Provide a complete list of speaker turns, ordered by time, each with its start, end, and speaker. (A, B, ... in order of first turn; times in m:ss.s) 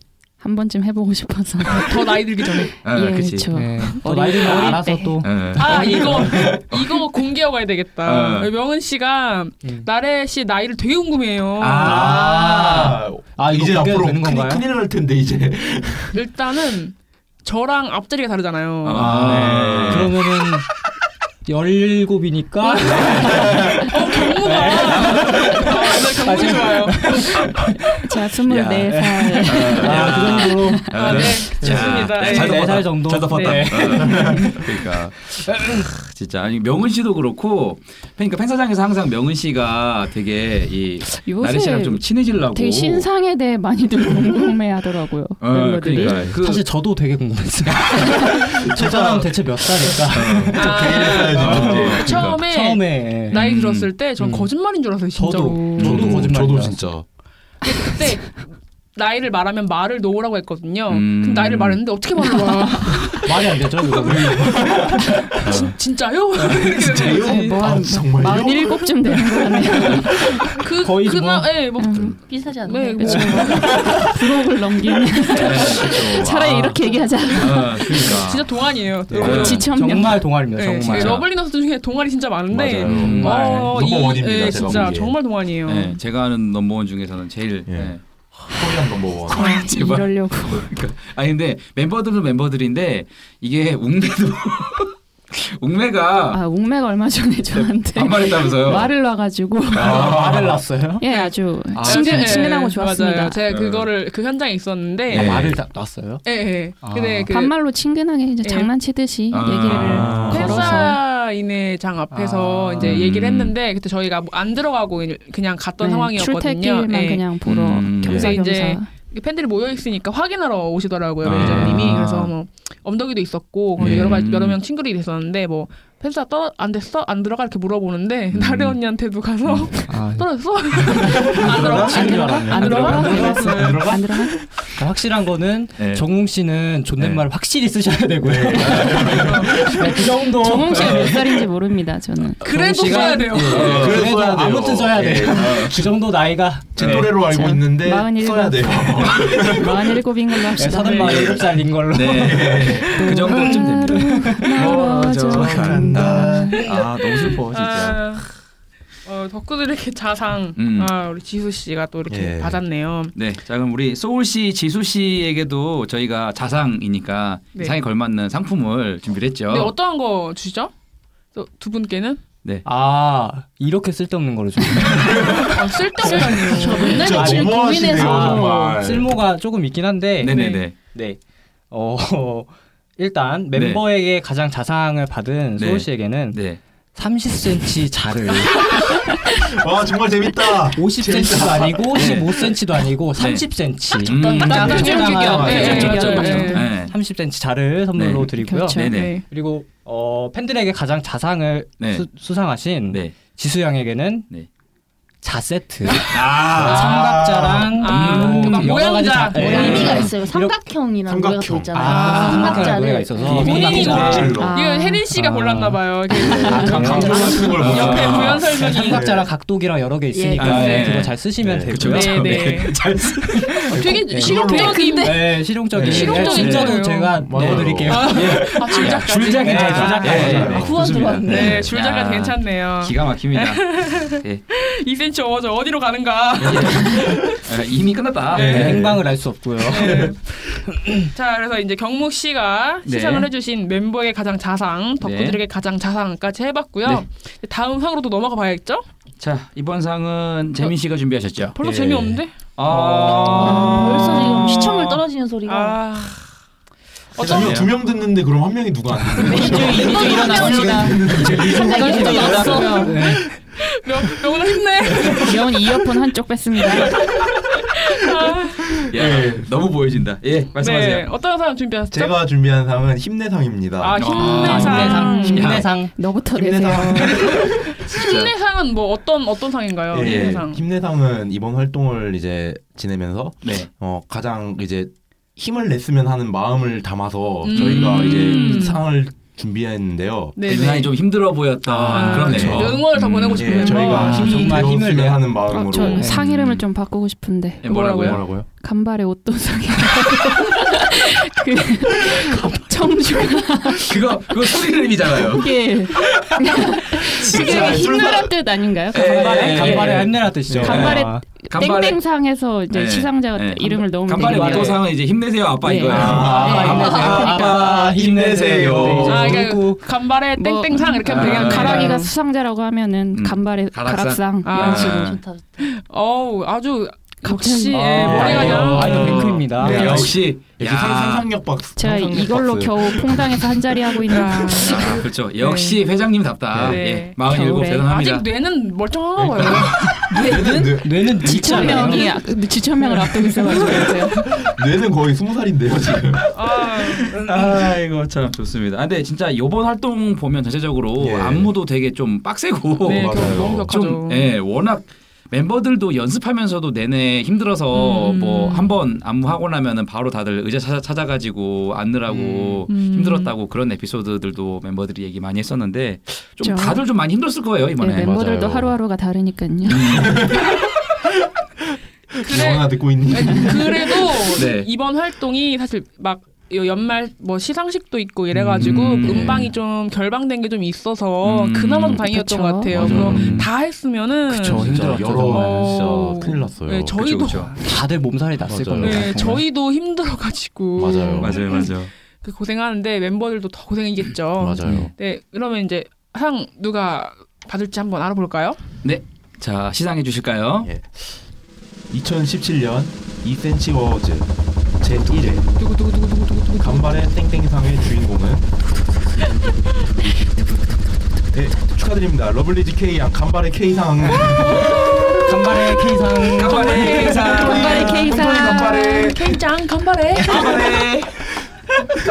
0:00.4-0:05.2 A
0:01.7-0:02.7 B
0:02.8-0:03.7 C
0:03.5-0:06.1 D
0:04.0-0:04.8 B
0:05.2-0:06.9 C
0:05.5-0:12.7 B
0:06.1-0:06.6 E
0:08.0-0:08.5 C
0:11.6-0:12.5 C
0:11.8-0:14.6 D
0:11.8-0:16.2 E
0:16.1-0:19.5 B
0:18.8-0:20.2 C
0:19.0-0:20.6 D
0:19.3-0:20.1 E
0:21.4-0:27.8 D
0:22.6-0:27.4 B
0:23.0-0:23.9 E
0:28.0-0:30.9 A
0:28.4-0:35.1 C
0:28.9-0:35.8 D
0:30.0-0:34.2 B
0:35.6-0:43.1 C
0:41.1-0:46.3 A
0:45.4-0:46.7 C
0:45.9-0:53.4 D
0:47.7-0:48.5 C
0:48.2-0:52.2 E
0:50.1-0:52.4 C
0:50.5-0:56.2 B
0:53.3-0:54.0 C
0:54.2-0:54.5 D
0:55.1-0:56.9 D
0:55.8-0:57.0 E
0:57.6-1:04.4 B
1:00.9-1:01.8 C
1:02.2-1:03.0 A
1:03.2-1:05.1 D
1:04.0-1:05.8 E
1:05.4-1:07.6 B
1:06.6-1:09.9 E
1:07.1-1:10.3 A
1:10.6-1:12.0 B
1:10.8-1:11.6 D
1:11.8-1:12.2 A
1:12.2-1:13.9 F
1:12.6-1:13.8 B
1:13.0-1:18.1 A
1:13.0-1:13.8 D
1:15.4-1:16.8 C
1:17.3-1:18.6 C
1:17.9-1:26.0 B
1:19.1-1:19.6 E
1:19.2-1:19.7 C
1:19.2-1:21.2 D
1:19.4-1:20.2 A
1:20.9-1:21.3 C
1:22.5-1:25.2 E
1:22.8-1:23.3 C
1:22.9-1:23.8 D
1:25.6-1:28.0 C
1:27.7-1:27.9 E
1:28.5-1:29.6 E
1:29.3-1:30.7 A
1:29.4-1:36.4 C
1:36.3-1:40.2 A
1:37.9-1:38.9 C
1:39.7-1:40.4 C
1:39.8-1:40.6 E
1:39.8-1:41.0 D
1:41.0-1:43.4 A
1:41.1-1:45.3 B
1:41.7-1:42.5 D
1:43.5-1:43.9 C
1:45.1-1:47.3 D
1:45.1-1:45.6 C
1:46.2-1:47.5 B
1:47.3-1:51.0 A
1:48.4-1:48.7 B
1:49.3-1:50.7 C
1:49.7-1:50.6 E
1:50.3-1:57.3 B
1:52.1-1:53.0 D
1:52.8-1:53.6 C
1:55.8-1:58.9 A
1:57.4-1:58.3 C
1:58.0-2:14.0 B
1:58.0-1:58.3 E
2:01.2-2:02.3 C
2:01.2-2:02.0 E
2:03.8-2:04.1 E
2:03.8-2:04.6 C
2:08.3-2:08.8 C
2:09.4-2:09.7 C
2:09.9-2:13.9 D
2:11.2-2:14.2 E
2:11.5-2:11.9 C
2:11.9-2:14.4 A
2:14.8-2:21.4 D
2:15.8-2:16.1 C
2:17.0-2:17.3 C
2:18.2-2:20.1 E
2:19.2-2:19.6 B
2:20.4-2:23.1 A
2:22.4-2:23.9 B
2:22.4-2:27.4 D
2:23.3-2:25.8 E
2:23.4-2:24.1 C
2:25.1-2:25.8 C
2:26.7-2:30.0 E
2:26.8-2:27.1 C
2:27.1-2:31.2 A
2:30.6-2:34.7 D
2:30.9-2:36.1 C
2:32.0-2:33.0 E
2:32.9-2:36.6 A
2:34.6-2:38.0 E
2:35.4-2:36.4 D
2:37.2-2:38.3 B
2:39.0-2:43.1 B
2:40.6-2:40.9 C
2:42.1-2:42.6 E
2:43.1-2:49.7 C
2:49.5-2:50.7 B
2:51.3-2:52.2 B
2:52.6-2:55.5 D
2:54.9-2:55.5 E
2:55.0-2:57.8 B
2:56.0-3:01.2 D
2:56.1-2:59.2 E
2:56.5-2:58.8 F
3:00.2-3:00.8 C
3:00.2-3:00.6 B
3:01.7-3:08.7 D
3:03.5-3:03.9 C
3:05.6-3:06.6 C
3:09.3-3:12.3 E
3:10.7-3:24.3 D
3:11.9-3:12.4 C
3:13.1-3:17.0 C
3:14.1-3:16.1 E
3:14.4-3:14.9 F
3:14.4-3:16.7 B
3:14.5-3:16.6 A
3:17.9-3:19.2 C
3:18.4-3:18.9 A
3:18.8-3:19.2 B
3:21.8-3:22.1 C
3:22.9-3:23.2 C
3:25.2-3:30.6 D
3:26.1-3:27.2 C
3:26.5-3:27.8 E
3:26.7-3:27.0 B
3:27.8-3:30.0 B
3:27.8-3:28.8 C
3:29.4-3:34.3 F
3:29.4-3:29.9 C
3:31.0-3:32.1 E
3:31.7-3:34.5 D
3:31.9-3:32.6 B
3:32.1-3:32.7 C
3:33.2-3:34.6 E
3:33.3-3:39.1 B
3:33.4-3:34.0 C
3:34.4-3:35.0 A
3:35.1-3:42.6 D
3:36.1-3:39.3 E
3:36.4-3:36.7 A
3:37.0-3:37.4 F
3:37.5-3:38.5 C
3:40.1-3:40.9 F
3:40.3-3:43.7 C
3:41.4-3:41.8 E
3:41.8-3:42.8 B
3:43.5-3:50.7 D
3:43.7-3:47.2 B
3:43.7-3:45.0 E
3:44.4-3:45.3 F
3:45.7-3:46.7 E
3:45.8-3:54.4 C
3:47.2-3:48.1 E
3:47.8-3:50.5 B
3:50.0-3:51.7 E
3:50.1-3:51.6 F
3:51.2-3:57.4 B
3:56.4-3:59.0 C
3:58.3-3:58.8 B
3:58.3-3:59.0 E
3:58.4-4:01.1 D
3:59.7-4:00.2 B
3:59.9-4:00.1 E
4:01.1-4:08.8 B
4:02.8-4:03.3 C
4:05.0-4:05.4 C
4:09.2-4:11.6 C
4:11.6-4:12.4 B
4:11.6-4:12.2 E
4:12.6-4:15.0 C
4:12.7-4:13.5 D
4:13.1-4:13.6 E
4:13.2-4:15.8 F
4:15.4-4:16.2 B
4:17.1-4:17.7 B
4:17.2-4:22.6 E
4:17.2-4:17.7 C
4:19.2-4:22.9 F
4:19.3-4:22.9 A
4:19.8-4:20.3 B
4:19.9-4:23.4 D
4:21.8-4:25.7 B
4:25.2-4:27.0 A
4:27.7-4:28.8 B
4:28.9-4:31.1 C
4:28.9-4:29.5 E
4:30.6-4:32.2 B
4:31.9-4:34.2 E
4:33.8-4:35.6 B
4:34.0-4:35.7 C
4:34.3-4:35.9 D
4:35.0-4:37.3 A
4:36.3-4:37.5 E
4:37.8-4:40.6 B
4:37.9-4:38.3 C
4:39.9-4:50.4 E
4:40.0-4:40.4 C
4:43.4-4:43.7 C
4:47.4-4:48.8 B
4:47.5-4:48.7 C
4:50.4-4:51.0 B
4:50.4-4:54.2 C
4:51.7-4:52.7 D
4:51.7-4:52.8 E
4:51.9-4:54.5 B
4:53.4-4:56.1 E
4:53.6-4:56.2 D
4:55.5-4:57.8 A
4:56.1-4:56.6 C
4:57.6-4:58.2 C
4:57.6-4:58.2 B
4:57.9-4:58.4 E
4:58.6-5:04.3 A
5:03.8-5:06.2 C
5:05.2-5:10.0 A
5:07.2-5:08.3 E
5:07.3-5:08.0 C
5:08.9-5:12.0 C
5:09.0-5:11.4 D
5:09.7-5:11.0 E
5:10.6-5:14.8 A
5:12.7-5:19.3 C
5:14.2-5:14.9 D
5:15.6-5:17.6 A
5:15.8-5:19.8 D
5:15.8-5:19.4 E
5:19.0-5:22.1 B
5:20.4-5:24.9 A
5:21.1-5:21.6 D
5:21.1-5:22.0 C
5:23.1-5:25.2 C
5:24.4-5:29.4 B
5:24.6-5:25.6 F
5:27.2-5:28.1 A
5:27.7-5:30.2 D
5:28.0-5:31.3 C
5:28.0-5:28.8 E
5:29.6-5:33.7 E
5:31.8-5:34.8 A
5:34.1-5:35.8 B
5:34.6-5:38.2 C
5:36.5-5:36.8 E
5:36.6-5:37.2 B
5:37.2-5:37.9 A
5:37.7-5:40.6 B
5:39.2-5:41.9 E
5:40.2-5:42.2 D
5:40.3-5:40.7 F
5:41.2-5:44.3 A
5:43.5-5:47.0 E
5:46.3-5:47.1 B
5:47.2-6:08.2 C
5:51.0-5:51.5 E
5:52.8-5:53.7 E
5:52.8-5:54.3 B
5:57.7-5:58.7 B
6:02.2-6:02.6 E
6:02.7-6:03.3 B
6:06.4-6:06.8 A
6:07.8-6:10.1 A
6:08.0-6:08.7 E
6:09.7-6:10.3 C
6:09.8-6:10.6 E
6:12.2-6:27.6 B
6:12.2-6:14.2 E
6:14.3-6:14.7 C
6:18.3-6:19.3 D
6:18.6-6:19.5 C
6:21.2-6:22.1 C
6:22.0-6:22.9 A
6:22.7-6:23.5 C
6:22.8-6:23.5 E
6:23.1-6:23.4 D
6:24.3-6:25.9 D
6:24.3-6:27.0 E
6:26.9-6:27.5 C
6:27.6-6:29.4 D
6:28.4-6:29.2 E
6:28.8-6:38.6 B
6:30.8-6:31.6 E
6:31.2-6:31.9 C
6:34.4-6:34.9 E
6:38.8-6:40.7 C
6:40.6-6:41.0 E
6:41.9-6:45.5 E
6:45.6-6:47.0 B
6:46.6-6:48.4 E
6:51.3-6:55.1 E
6:54.4-6:55.6 B
6:55.2-6:57.2 D
6:56.2-7:00.9 B
6:56.3-6:59.1 C
6:57.2-6:59.1 E
6:57.3-6:59.0 A
7:00.3-7:01.1 C